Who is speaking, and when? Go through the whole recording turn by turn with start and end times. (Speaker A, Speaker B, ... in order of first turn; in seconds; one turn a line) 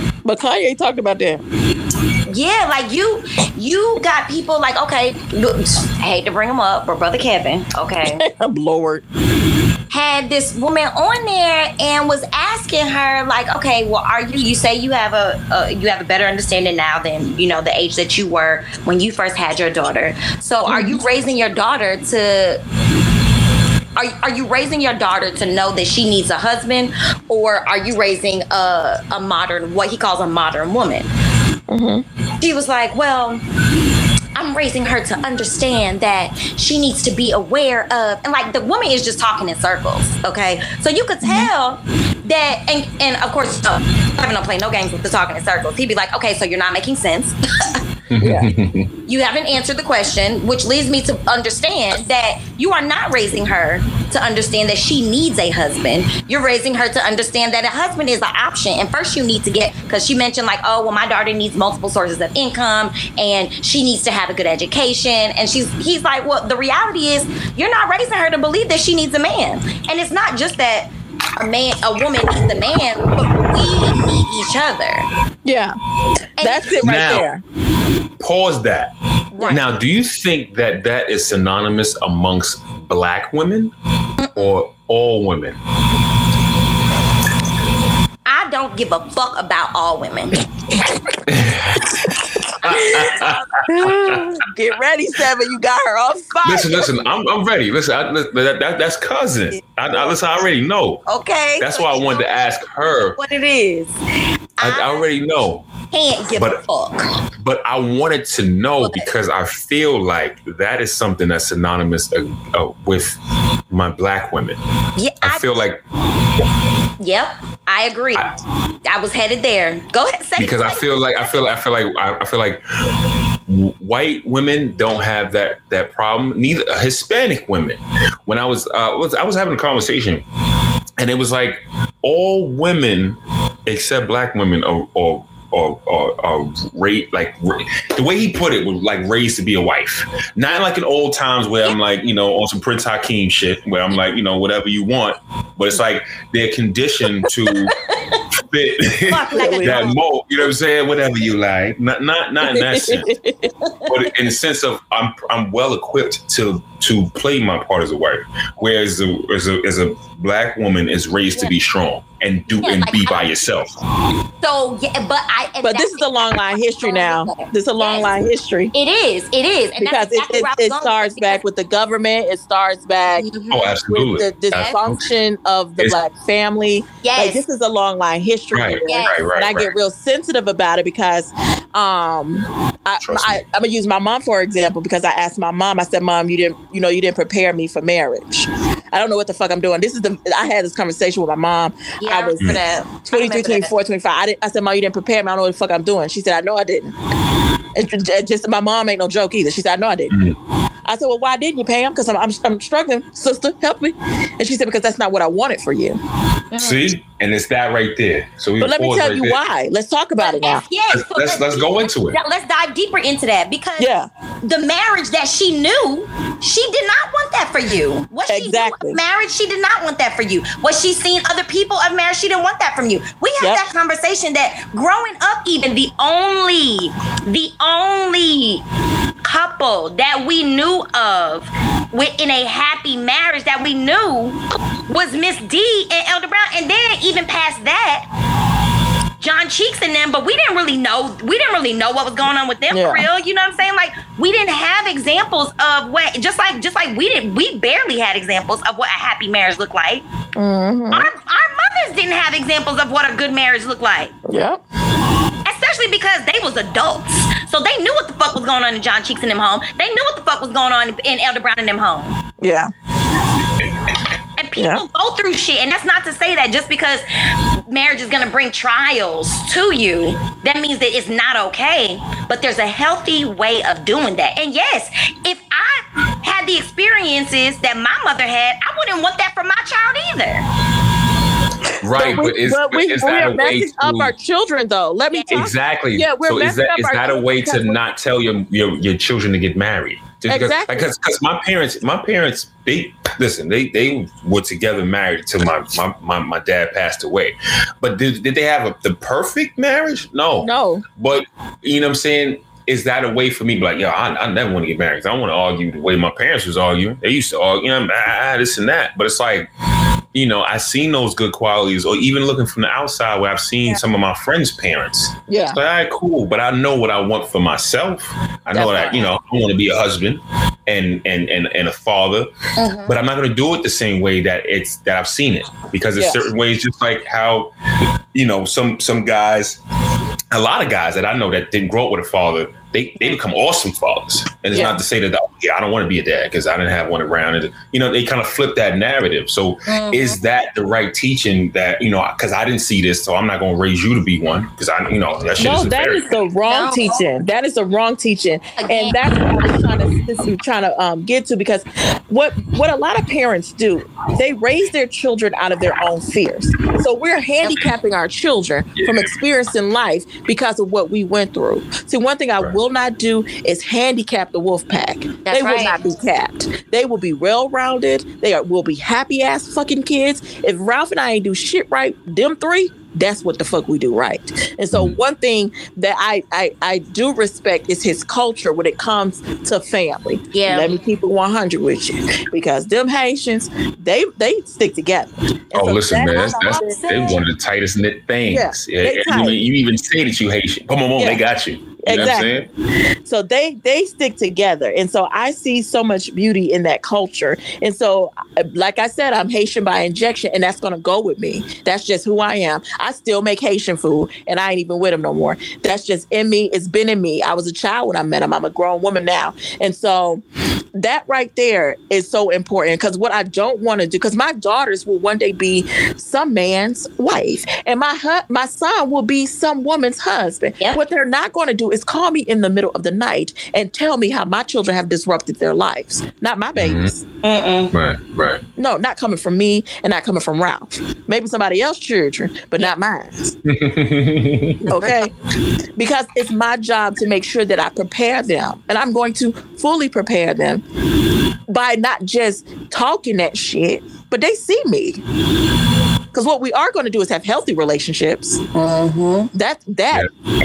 Speaker A: 0.2-1.4
Speaker B: 2.3-8.2
Speaker A: 8.1-9.0
Speaker B: 9.9-22.6
Speaker A: 20.7-21.0
Speaker B: 23.9-31.1
Speaker A: 31.7-32.0
Speaker B: 32.4-33.4
Speaker B: 34.3-47.3
Speaker A: 41.2-41.5
Speaker C: 48.1-48.9
Speaker A: 48.2-48.5
Speaker B: 49.1-75.1
Speaker A: 75.4-75.7
Speaker B: 76.4-77.0
Speaker A: 76.4-77.4
Speaker C: 76.7-77.2
Speaker C: 78.2-78.9
Speaker A: 79.3-79.6
Speaker B: 79.4-79.6
Speaker C: 79.5-83.7
Speaker B: 84.2-84.6
Speaker C: 84.3-85.6
Speaker B: 88.2-90.4
Speaker C: 91.3-92.0
Speaker A: 91.9-93.1
Speaker C: 92.6-94.2
Speaker B: 92.7-93.5
Speaker A: 93.7-97.0
Speaker C: 96.4-101.0
Speaker B: 101.1-102.5
Speaker C: 101.6-103.2
Speaker B: 103.1-104.0
Speaker B: 104.6-105.1
Speaker C: 104.6-105.7
Speaker B: 105.9-107.1
Speaker C: 106.3-106.6
Speaker C: 107.4-113.2
Speaker B: 108.8-109.1
Speaker C: 113.7-114.6
Speaker B: 115.0-115.5
Speaker C: 115.2-115.8
Speaker B: 117.0-118.3
Speaker B: 118.8-120.9
Speaker C: 120.4-122.6
Speaker C: 123.5-130.2
Speaker C: 131.0-147.8
Speaker C: 148.4-153.1
Speaker B: 149.1-150.0
Speaker A: 149.3-149.8
Speaker A: 152.5-153.5
Speaker C: 153.9-163.7
Speaker B: 162.6-163.3
Speaker B: 164.4-168.2
Speaker A: 165.6-168.7
Speaker B: 168.7-171.4
Speaker A: 169.8-173.2
Speaker B: 173.1-173.8
Speaker C: 173.5-175.1
Speaker A: 173.9-196.9
Speaker B: 174.5-174.8
Speaker B: 177.0-177.4
Speaker C: 178.5-179.7
Speaker B: 178.8-179.2
Speaker C: 183.0-183.4
Speaker B: 192.0-193.7
Speaker A: 197.7-200.1
Speaker C: 200.1-200.4
Speaker A: 200.9-206.0
Speaker B: 206.5-206.9
Speaker C: 206.5-209.4
Speaker A: 208.6-210.6
Speaker B: 210.2-228.6
Speaker C: 210.9-212.2
Speaker A: 213.8-214.1
Speaker A: 218.3-219.0
Speaker B: 229.2-238.1
Speaker B: 239.2-250.0
Speaker A: 242.7-243.1
Speaker A: 250.4-251.1
Speaker B: 250.9-254.2
Speaker A: 254.3-254.6
Speaker B: 255.4-262.2
Speaker A: 262.4-262.7
Speaker B: 264.4-267.0
Speaker A: 264.6-264.8
Speaker B: 267.7-280.4
Speaker C: 281.8-284.1
Speaker A: 281.9-287.8
Speaker C: 285.3-309.5
Speaker A: 290.3-290.9
Speaker A: 300.4-300.8
Speaker C: 310.1-322.3
Speaker A: 315.3-315.6
Speaker A: 318.5-319.1
Speaker B: 322.6-323.0
Speaker C: 322.8-327.5
Speaker A: 326.0-326.3
Speaker C: 328.1-329.6
Speaker C: 330.3-346.2
Speaker B: 339.7-340.2
Speaker A: 345.4-386.8
Speaker B: 346.4-347.0
Speaker B: 348.6-349.3
Speaker C: 358.8-359.1
Speaker B: 365.2-365.8
Speaker B: 380.3-380.8
Speaker C: 385.5-392.5
Speaker B: 386.3-387.2
Speaker A: 388.3-389.4
Speaker A: 391.0-391.2
Speaker A: 391.8-392.3
Speaker A: 393.0-410.2
Speaker A: 410.7-427.0
Speaker C: 426.6-426.9
Speaker B: 427.2-427.7
Speaker C: 427.7-428.4
Speaker A: 428.6-433.3
Speaker C: 433.4-434.9
Speaker A: 434.7-435.1
Speaker A: 435.8-440.6
Speaker A: 441.5-445.0
Speaker A: 446.1-448.4
Speaker B: 448.5-449.3
Speaker A: 449.3-450.1